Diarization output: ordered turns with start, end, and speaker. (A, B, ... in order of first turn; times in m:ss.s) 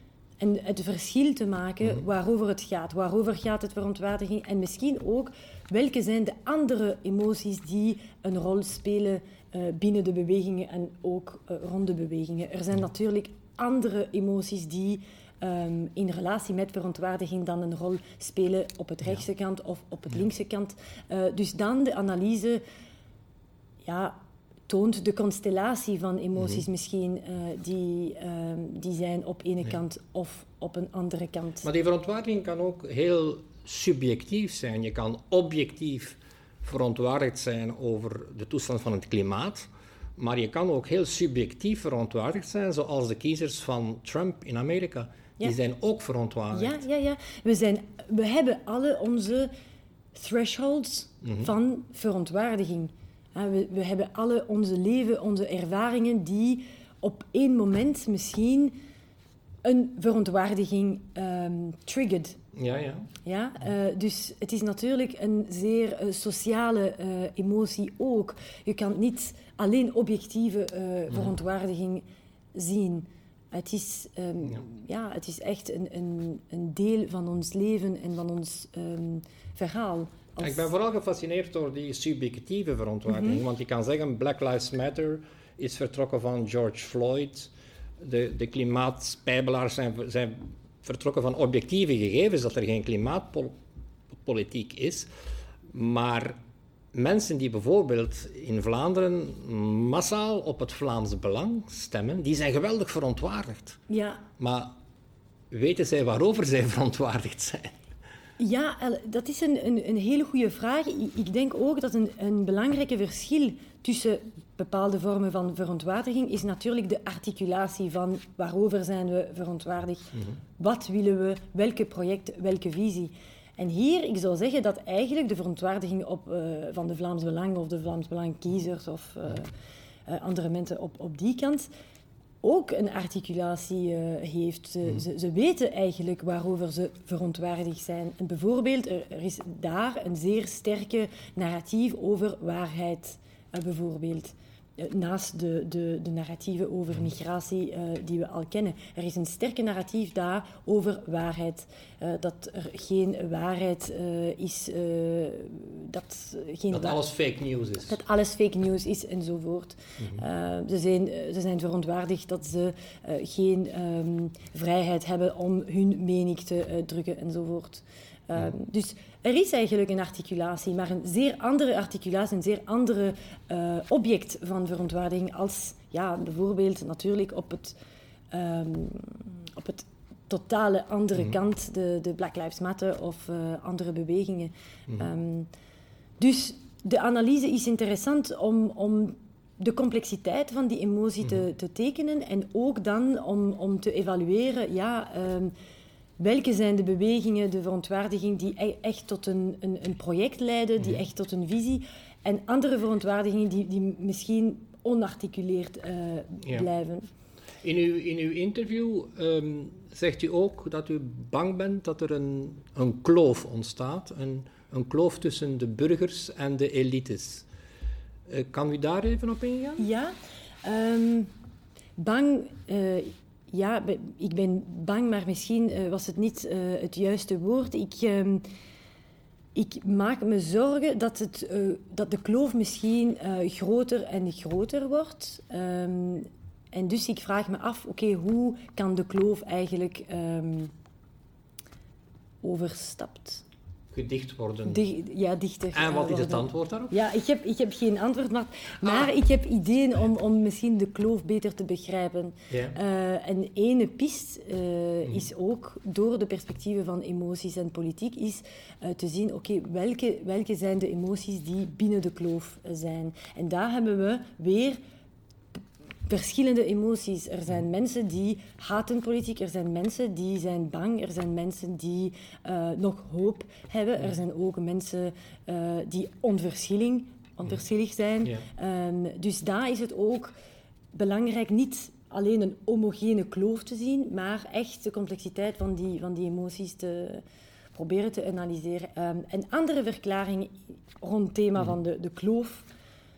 0:00.4-0:22.6 A
0:23.8-0:24.2 A
0:24.7-0:31.6 A
0:31.6-0:46.8 B
0:46.5-0:49.5 A
0:50.1-0:58.7 A
0:51.2-0:51.5 B
0:59.6-1:02.4 A
1:02.5-1:03.1 B
1:03.2-1:12.0 A
1:12.5-1:20.7 A
1:20.4-1:33.5 B
1:23.1-1:23.4 A
1:34.2-1:35.1 B
1:35.7-1:36.4 B
1:36.9-1:43.8 B
1:43.9-1:44.2 A
1:44.4-1:44.8 B
1:45.5-1:47.7 B
1:48.4-2:09.5 A
2:10.1-2:11.7 A
2:12.4-2:37.0 A
2:36.7-2:38.0 B
2:37.9-2:57.8 A
2:58.3-3:05.5 A
3:06.2-3:15.5 A
3:16.2-3:27.1 A
3:27.6-3:37.5 B
3:38.3-3:39.8 B
3:39.8-3:41.3 A
3:42.0-3:48.4 A
3:49.5-4:00.7 A
4:02.4-4:03.4 A
4:03.9-4:04.8 B
4:04.6-4:24.8 A
4:05.7-4:06.9 B
4:12.5-4:12.8 B
4:26.0-4:40.3 A
4:40.9-4:47.2 A
4:47.7-4:52.7 A